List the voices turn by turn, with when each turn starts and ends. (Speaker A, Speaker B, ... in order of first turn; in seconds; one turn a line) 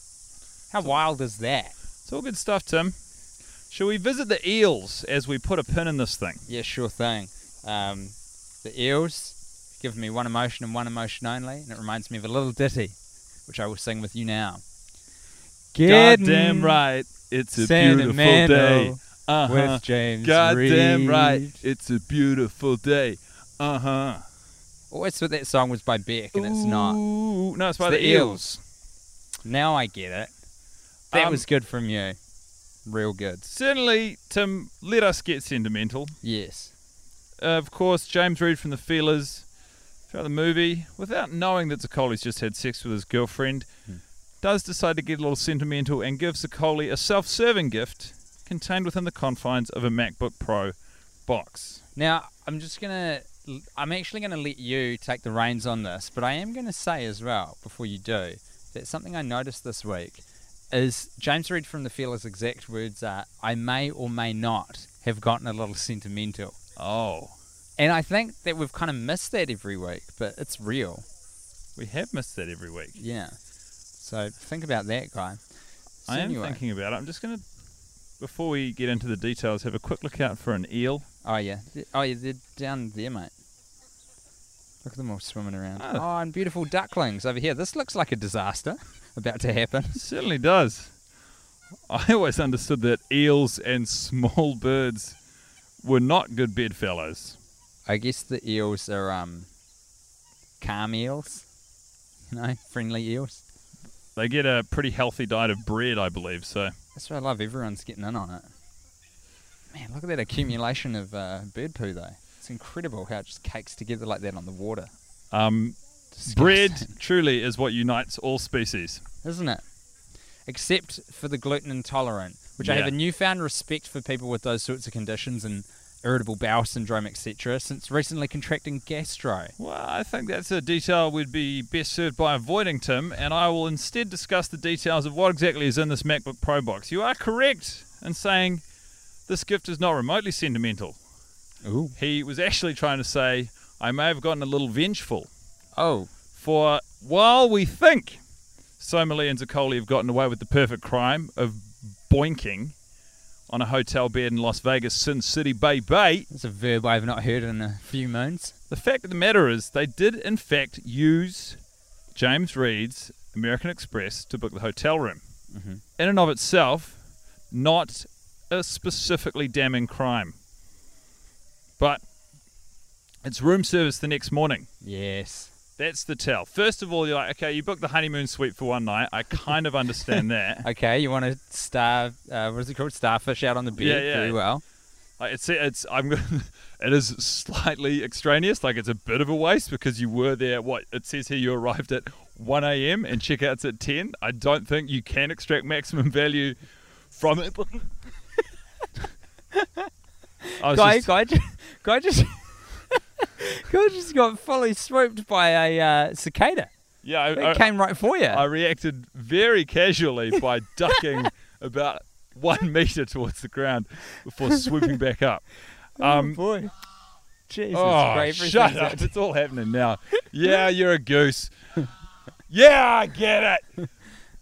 Speaker A: 0.7-1.7
Speaker B: 2.0-3.0
Speaker B: 3.7-6.4
Speaker A: 6.5-12.9
Speaker A: 13.4-14.6
Speaker A: 15.7-16.8
Speaker B: 15.8-24.2
Speaker A: 17.6-21.6
Speaker A: 24.9-27.0
Speaker B: 26.3-28.6
Speaker A: 27.8-28.4
Speaker A: 29.4-30.3
Speaker B: 31.1-31.4
Speaker A: 31.1-32.2
Speaker A: 32.9-33.5
Speaker B: 33.5-36.1
Speaker A: 36.2-36.7
Speaker B: 37.4-39.5
Speaker B: 40.1-43.7
Speaker B: 44.4-50.7
Speaker B: 51.3-51.8
Speaker A: 52.0-66.5
Speaker B: 66.8-67.3
Speaker A: 67.8-71.0
Speaker B: 71.8-73.0
Speaker A: 73.0-73.3
Speaker A: 74.0-75.4
Speaker A: 76.0-76.6
Speaker B: 76.1-77.4
Speaker B: 78.2-81.0
Speaker A: 81.2-83.3
Speaker A: 84.8-90.0
Speaker B: 85.8-86.0
Speaker B: 89.9-90.9
Speaker B: 91.9-95.2
Speaker B: 95.8-97.4
Speaker A: 97.9-99.5
Speaker A: 100.6-101.5
Speaker A: 102.3-103.4
Speaker B: 104.2-106.7
Speaker A: 106.9-108.5
Speaker A: 109.7-114.9
Speaker B: 115.3-119.0
Speaker A: 116.1-116.9
Speaker A: 119.2-119.6
Speaker A: 120.5-129.5
Speaker B: 122.6-122.9
Speaker B: 129.6-138.6
Speaker B: 139.3-140.9
Speaker A: 141.6-141.9
Speaker B: 141.9-145.3
Speaker A: 145.8-146.1
Speaker B: 146.3-148.2
Speaker B: 148.8-152.7
Speaker B: 153.5-156.3
Speaker A: 156.3-158.5
Speaker B: 158.7-161.6
Speaker B: 162.1-165.2
Speaker A: 165.5-165.8
Speaker B: 166.0-167.0
Speaker B: 167.5-170.4
Speaker B: 173.2-174.7
Speaker A: 174.8-175.5
Speaker B: 175.8-180.7
Speaker A: 180.6-184.6
Speaker B: 183.8-184.4
Speaker B: 185.2-196.6
Speaker B: 197.1-197.9
Speaker A: 199.6-199.9
Speaker B: 200.6-201.1
Speaker A: 200.6-206.7
Speaker B: 207.0-207.7
Speaker A: 207.3-208.4
Speaker B: 208.3-216.4
Speaker A: 216.0-216.7
Speaker A: 217.5-219.1
Speaker B: 217.7-221.5
Speaker B: 222.5-223.8